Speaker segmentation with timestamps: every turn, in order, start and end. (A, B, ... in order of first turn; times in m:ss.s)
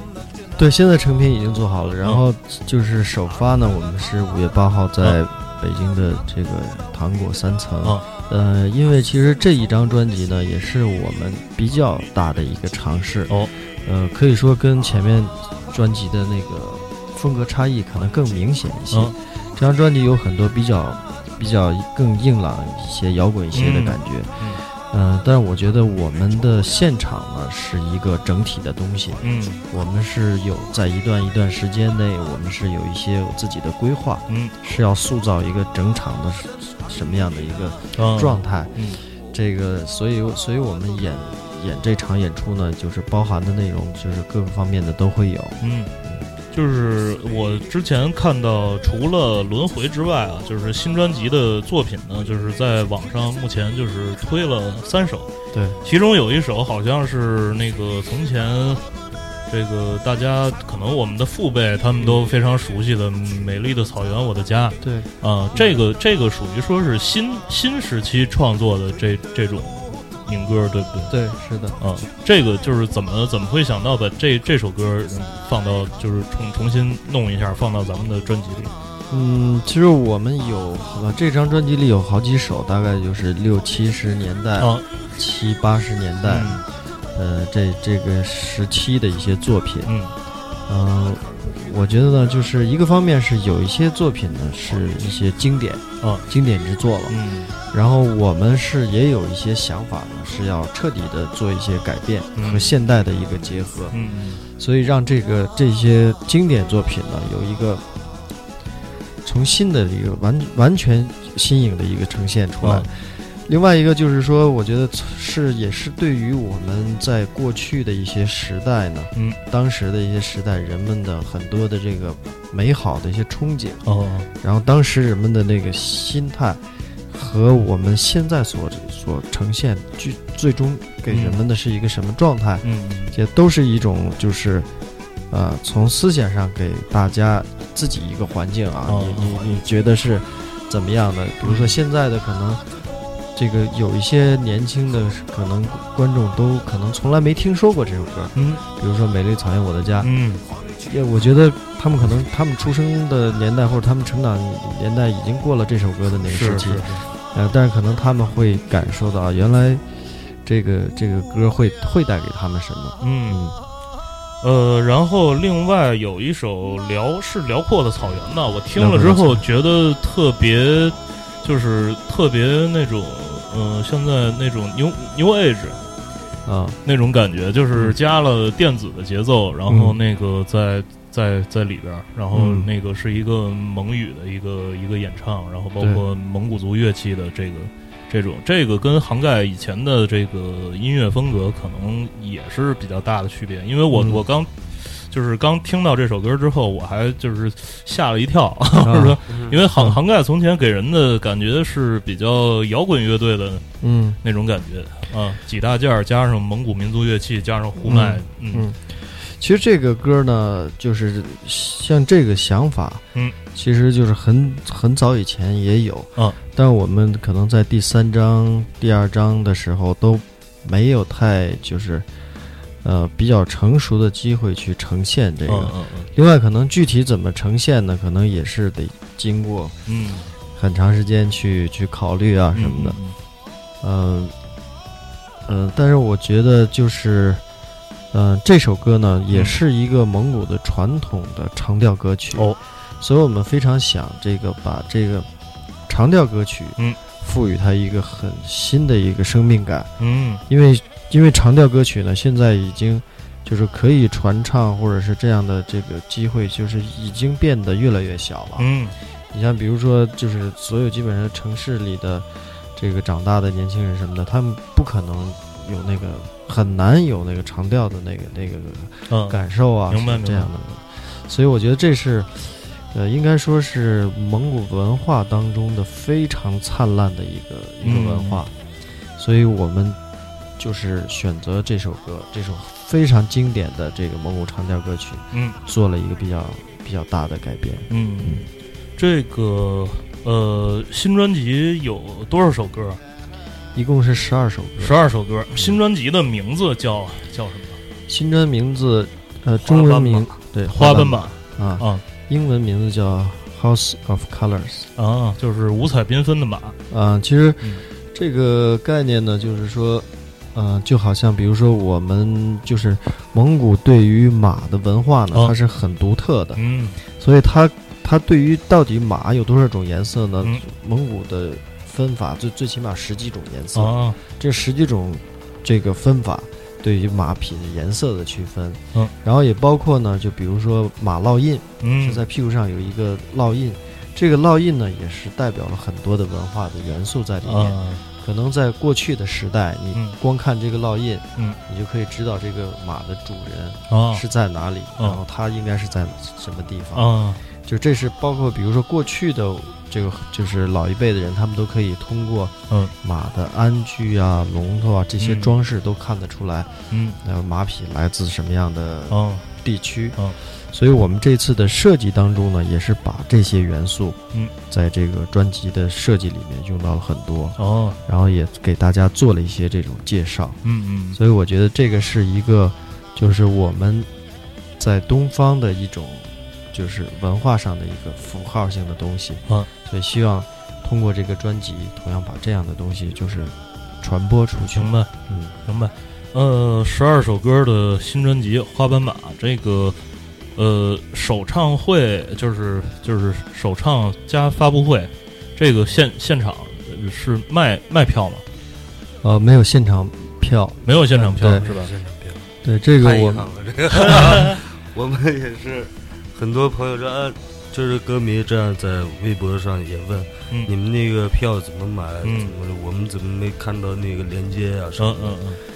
0:00.5-0:38.8 A
0:23.5-0:24.6 B
0:29.2-0:29.6 B
0:34.3-0:34.6 B
0:38.0-0:39.0 B
0:39.3-0:46.2 A
0:45.6-0:45.9 B
0:46.5-0:55.3 B
0:55.5-0:55.8 A
0:55.8-0:58.8 B
0:59.5-1:11.1 B
1:04.8-1:05.8 A
1:11.1-1:11.8 A
1:11.8-1:18.7 B
1:19.1-1:26.6 A
1:24.6-1:24.8 B
1:26.2-1:26.6 B
1:27.1-1:29.9 A
1:29.8-1:30.1 B
1:30.7-1:37.2 A
1:37.1-1:37.5 B
1:37.7-1:47.8 A
1:42.4-1:42.7 B
1:43.9-1:44.4 B
1:49.2-2:03.8 A
1:52.6-1:52.9 B
2:03.8-2:04.3 B
2:04.4-2:14.7 A
2:11.1-2:11.4 B
2:12.6-2:13.1 B
2:15.3-2:22.6 A
2:18.9-2:19.5 B
2:21.4-2:21.7 B
2:23.3-2:30.1 A
2:28.3-2:28.6 B
2:30.0-2:30.4 B
2:30.8-2:39.8 A
2:36.3-2:37.0 B
2:40.4-2:43.6 A
2:43.0-2:43.4 B
2:44.4-2:55.8 B
2:48.8-2:49.4 A
2:56.4-2:56.8 A
2:56.8-3:23.6 B
2:59.7-3:00.0 A
3:02.3-3:02.7 A
3:13.9-3:14.2 A
3:18.8-3:19.2 A
3:19.3-3:19.6 C
3:23.8-3:24.2 A
3:24.2-3:28.7 B
3:27.8-3:42.1 A
3:42.8-3:49.8 A
3:45.5-3:46.1 B
3:49.9-3:50.3 B
3:50.5-3:53.0 A
3:52.5-3:53.2 B
3:53.8-3:54.3 A
3:55.5-3:57.4 A
3:58.1-4:05.3 A
3:59.3-3:59.6 B
4:05.9-4:09.9 A
4:10.0-4:10.4 B
4:10.5-4:18.7 A
4:18.6-4:18.9 B
4:19.3-4:38.5 A
4:29.1-4:30.5 B
4:37.8-4:38.4 B
4:39.2-4:40.0 A
4:40.6-4:48.4 A
4:45.3-4:45.6 B
4:47.9-4:53.0 B
4:53.7-4:55.0 A
4:54.8-4:57.8 B
4:58.1-5:04.9 A
4:59.6-5:00.4 C
5:00.6-5:02.0 B
5:05.0-5:06.8 B
5:06.9-5:16.6 A
5:16.6-5:17.0 B
5:17.2-6:10.6 A
5:23.7-5:24.2 B
5:31.8-5:32.2 B
5:37.4-5:38.0 B
5:43.9-5:44.2 B
5:46.9-5:47.4 B
5:55.2-5:55.6 B
5:56.9-5:57.2 B
5:59.1-5:59.5 B
6:07.6-6:08.0 B
6:10.6-6:11.2 B
6:11.1-6:14.1 A
6:14.8-6:25.5 A
6:24.7-6:25.1 B
6:25.6-6:30.0 B
6:30.6-6:38.4 B
6:39.2-6:41.6 A
6:40.8-6:41.9 B
6:41.5-6:42.5 C
6:42.6-6:43.5 A
6:43.0-6:55.5 C
6:44.1-6:44.4 B
6:52.2-6:52.5 B
6:55.0-6:55.6 B